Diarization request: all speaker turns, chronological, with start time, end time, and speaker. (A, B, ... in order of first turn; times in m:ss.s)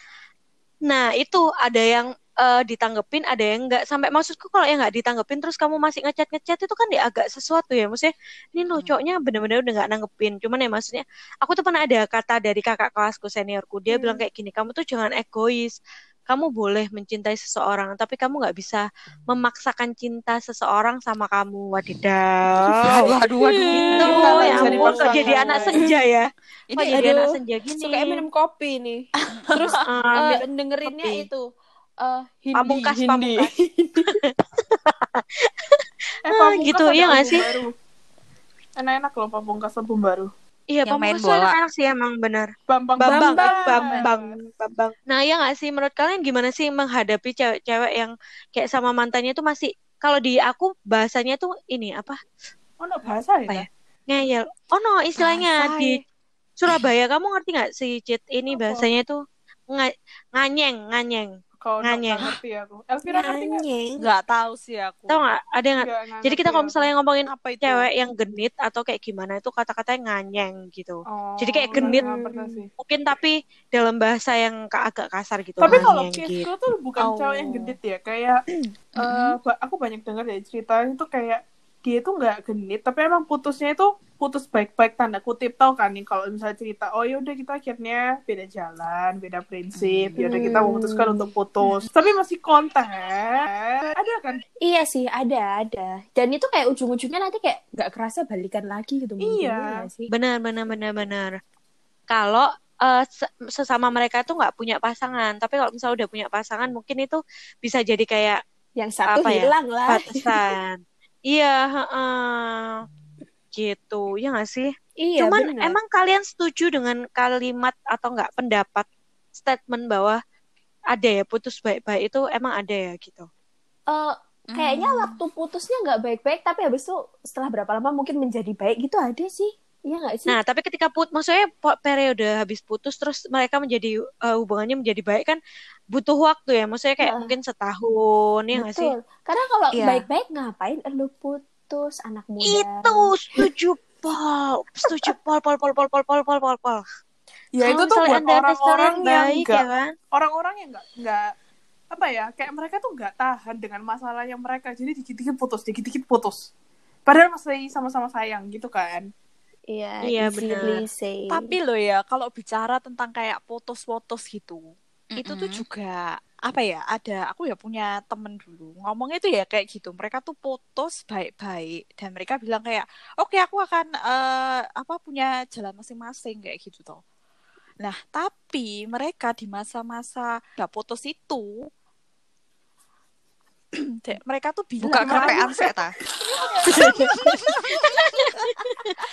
0:00.8-0:15.7 A
0:13.9-0:14.2 B
0:16.3-0:23.1 A
0:22.6-0:24.8 C
0:23.6-0:28.2 A
0:23.8-0:25.7 B
0:24.0-0:25.8 D
0:26.7-0:31.5 B
0:29.3-0:29.7 C
0:29.6-0:31.2 A
0:32.0-0:34.2 B
0:32.5-0:33.5 A
0:34.1-0:37.6 A
0:36.2-0:37.7 D
0:38.8-0:40.3 D
0:40.7-0:52.2 A
0:40.8-0:41.5 C
0:42.7-0:44.4 D
0:43.1-0:44.0 B
0:52.8-0:53.7 D
0:53.5-0:56.0 A
0:55.2-0:55.4 C
0:55.5-0:55.9 E
0:56.6-0:59.2 A
0:58.5-0:58.9 D
0:59.7-1:02.3 A
1:01.6-1:03.6 D
1:03.2-1:03.5 A
1:03.5-1:04.0 B
1:04.0-1:05.3 E
1:05.1-1:12.0 A
1:05.8-1:06.9 D
1:07.4-1:07.7 E
1:11.1-1:12.7 D
1:11.7-1:12.6 B
1:12.8-1:16.5 A
1:15.6-1:18.4 D
1:17.0-1:17.7 B
1:19.0-1:34.4 D
1:29.7-1:30.2 C
1:30.2-1:31.3 B
1:34.6-1:40.1 B
1:39.2-1:39.9 D
1:40.1-1:41.3 A
1:42.1-1:48.4 A
1:48.8-1:50.4 B
1:49.1-1:52.8 A
1:53.5-2:00.2 A
1:55.0-1:55.8 B
2:00.9-2:03.3 A
2:03.9-2:10.4 B
2:04.5-2:05.2 C
2:10.3-2:15.4 A
2:15.9-2:18.9 A
2:17.0-2:17.3 B
2:18.5-2:23.1 B
2:19.7-2:20.0 C
2:22.4-2:26.8 A
2:27.5-2:31.2 D
2:27.6-2:29.9 A
2:31.9-2:36.5 D
2:37.1-2:39.0 D
2:39.7-2:41.5 B
2:40.0-2:40.8 A
2:41.3-2:44.6 E
2:45.1-2:45.6 C
2:45.2-2:57.0 E
2:57.8-3:01.5 E
3:03.8-3:05.7 E
3:04.8-3:05.9 C
3:06.6-3:09.0 A
3:06.7-3:08.7 C